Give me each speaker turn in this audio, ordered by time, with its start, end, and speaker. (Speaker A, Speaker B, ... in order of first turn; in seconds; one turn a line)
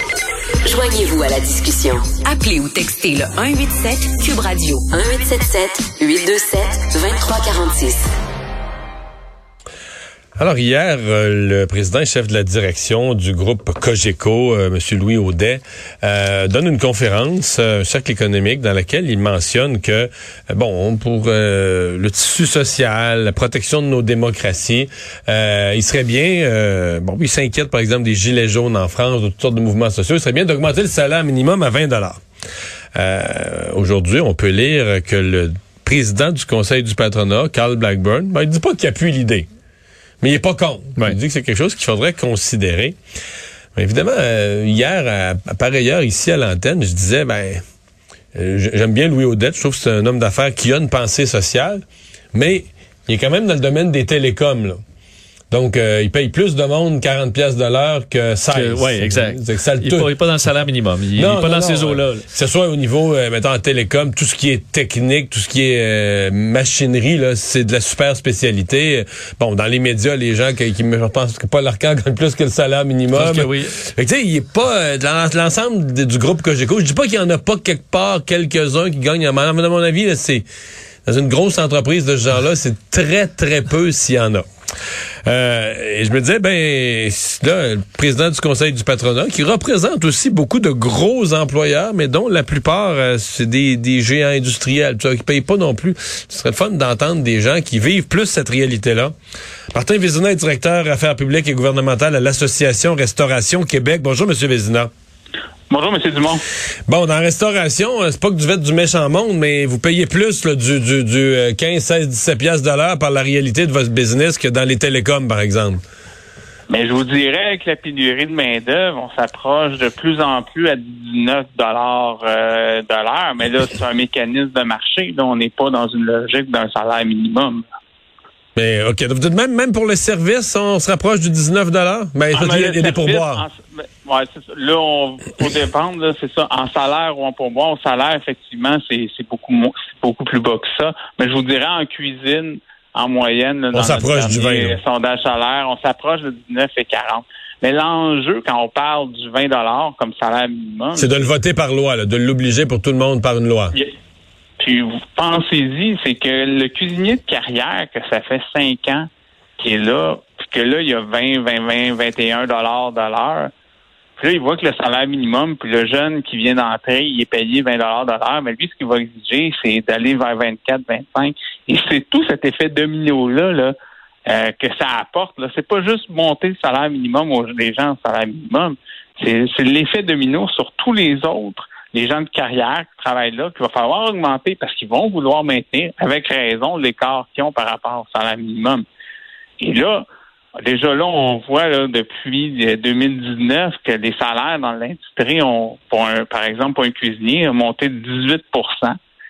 Speaker A: 0.7-8.1
Speaker B: 10.4-32.2
Speaker B: 33.0-39.5
Speaker B: 40.2-43.0
Speaker B: 43.8-47.6
Speaker B: 48.4-51.8
Speaker B: 52.3-54.8
Speaker B: 55.5-60.1
Speaker C: 58.5-62.2
Speaker B: 61.2-80.5
Speaker C: 73.1-73.7
Speaker B: 81.1-84.5
Speaker B: 85.3-99.1
Speaker B: 99.7-104.9
Speaker D: 105.7-106.4
Speaker B: 106.9-115.8
Speaker D: 116.7-127.6
Speaker B: 128.6-133.5
Speaker D: 132.3-151.1
Speaker B: 143.7-144.8
Speaker B: 151.0-153.8
Speaker D: 154.6-159.1
Speaker D: 159.6-163.5
Speaker D: 164.2-173.7
Speaker D: 174.3-188.8
Speaker D: 189.6-190.1
Speaker D: 190.6-199.0